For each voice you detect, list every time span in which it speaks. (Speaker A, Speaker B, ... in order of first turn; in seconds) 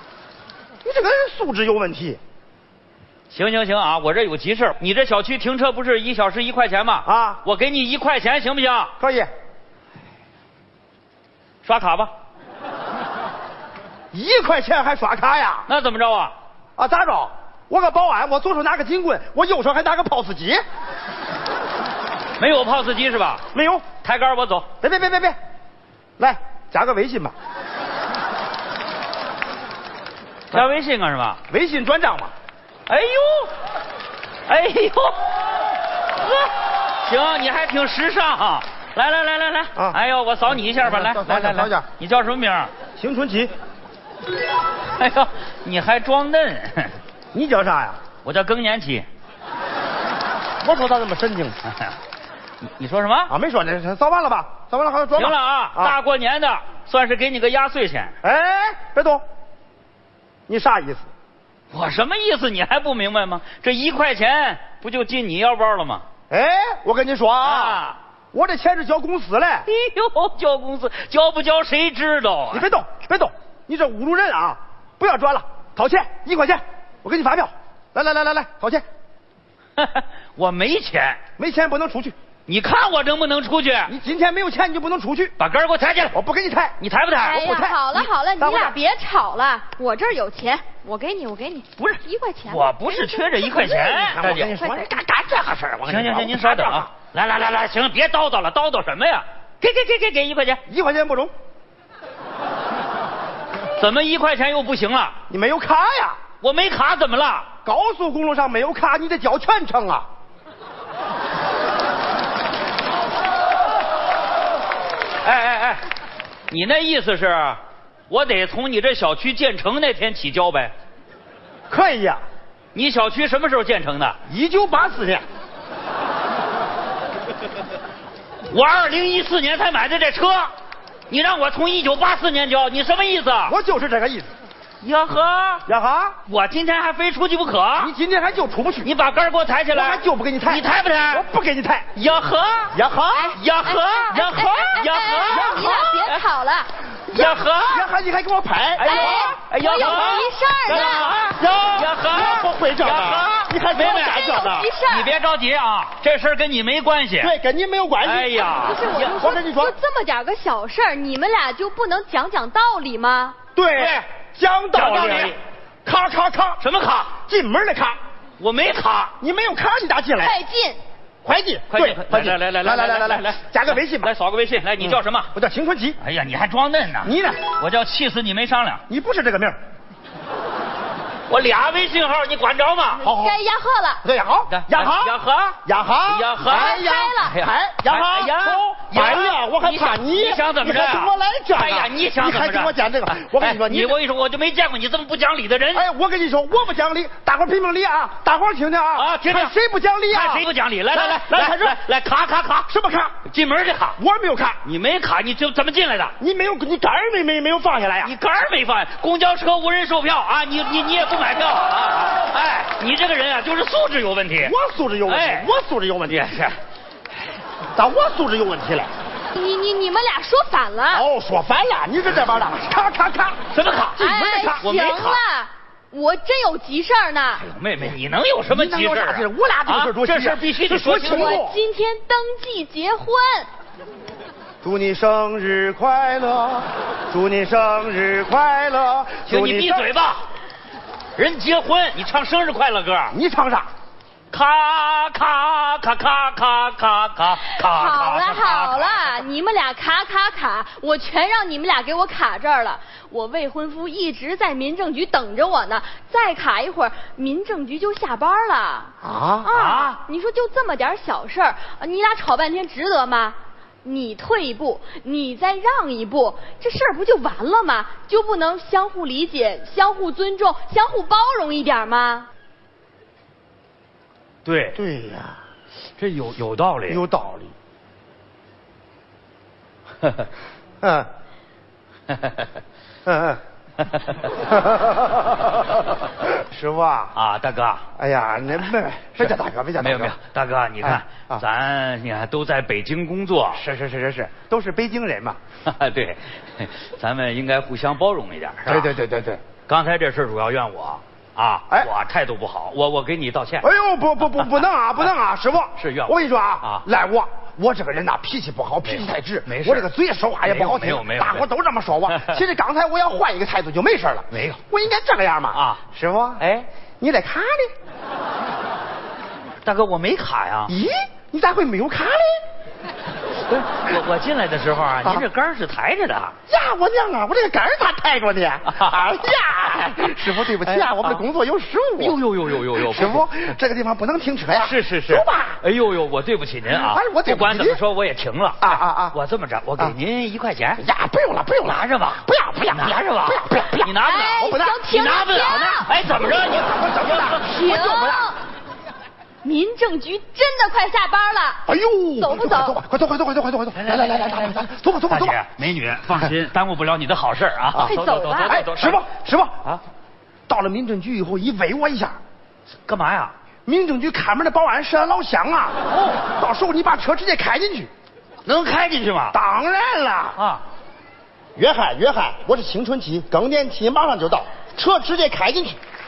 Speaker A: 0.8-2.2, 7.0-7.4, 9.0-9.3, 14.1-15.7, 16.8-20.6, 23.5-23.9, 24.8-25.4, 26.2-27.3, 31.5-32.3, 40.8-41.9, 43.0-43.5, 47.3-48.0, 50.6-51.6, 53.3-56.0, 58.2-59.2, 60.5-61.1, 66.3-69.7, 72.5-78.8, 81.4-82.1, 83.8-85.3, 86.1-86.8, 87.3-88.8, 93.8-96.9, 100.7-101.3, 105.3-106.2, 107.6-110.0, 121.7-122.2, 124.3-125.2, 133.5-134.3, 135.7-136.1, 137.8-138.9, 139.7-141.9, 142.7-143.3, 145.3-146.0, 147.1-154.7, 157.2-158.4, 159.2-159.8, 163.5-166.6, 167.2-168.0, 169.2-170.4, 171.2-174.1, 174.9-176.0, 177.0-177.4, 178.9-179.6, 183.0-183.4, 184.0-194.0, 195.7-201.8, 202.7-203.2, 204.0-204.6, 206.2-208.1, 214.4-216.2, 217.7-218.9, 220.9-223.4, 223.9-224.7, 228.5-231.6, 234.6-239.9, 243.1-243.7, 259.0-259.5, 274.7-275.4, 276.9-277.5, 280.8-281.1, 283.1-283.4, 284.4-285.6, 286.2-287.1, 288.0-290.1, 290.8-291.4, 293.5-295.4, 298.6-299.4, 303.6-316.4, 317.0-317.7, 320.7-322.4, 326.5-332.2, 332.8-335.6, 336.7-337.8, 338.6-339.1, 340.8-344.8, 346.1-348.3, 351.7-355.4, 357.7-359.6, 360.5-362.2, 363.6-367.9, 369.3-370.4, 371.6-375.8
Speaker B: 3.3-8.9, 11.6-12.1, 15.7-16.3, 22.4-23.4, 24.0-24.7, 30.5-31.4, 32.9-33.5, 34.5-35.1, 36.2-36.5, 37.0-42.7, 45.0-47.0, 48.2-49.0, 52.8-53.3, 55.1-58.1, 61.7-66.0, 67.4-68.0, 69.7-72.7, 79.8-81.2, 82.5-83.9, 85.4-86.2, 86.8-87.4, 91.8-94.5, 95.8-100.6, 103.8-105.2, 106.4-107.5, 115.2-115.8, 116.5-120.7, 122.7-124.2, 128.5-130.5, 131.1-133.5, 134.8-135.6, 136.2-137.9, 138.8-141.2, 141.9-142.7, 143.3-146.2, 147.1-147.9, 148.8-157.3, 158.0-159.2, 163.7-164.0, 164.7-165.4, 166.6-167.1, 168.4-169.1, 171.7-175.3, 176.0-178.8, 181.3-183.0, 184.5-195.8, 198.9-199.6, 200.1-202.7, 203.3-204.0, 204.6-206.1, 208.0-214.5, 215.1-215.5, 216.1-216.6, 223.5-224.0, 224.6-225.2, 227.4-231.4, 239.2-240.2, 241.2-243.1, 244.3-249.2, 259.5-260.0, 274.4-274.8, 276.0-277.0, 282.1-282.4, 287.1-287.8, 289.2-293.6, 295.6-298.9, 299.7-303.6, 305.8-306.8, 308.8-309.9, 310.4-311.4, 312.1-312.4, 314.3-314.6, 315.5-315.8, 316.4-316.7, 319.6-320.7, 323.5-326.3, 328.7-329.0, 330.2-331.2, 332.0-333.2, 334.5-340.8, 341.6-347.7, 353.8-354.6, 355.1-359.0, 362.9-363.3, 365.9-366.2, 368.4-369.4, 370.4-370.6
Speaker C: 87.1-95.0, 143.1-146.7, 148.8-151.1, 153.7-155.1, 158.4-163.4, 170.2-170.8, 183.0-184.0, 186.5-187.4, 219.3-221.1, 223.9-227.4, 231.0-233.5, 247.3-272.3, 344.0-345.9, 347.5-348.4, 349.4-351.6, 352.1-352.8, 357.8-358.6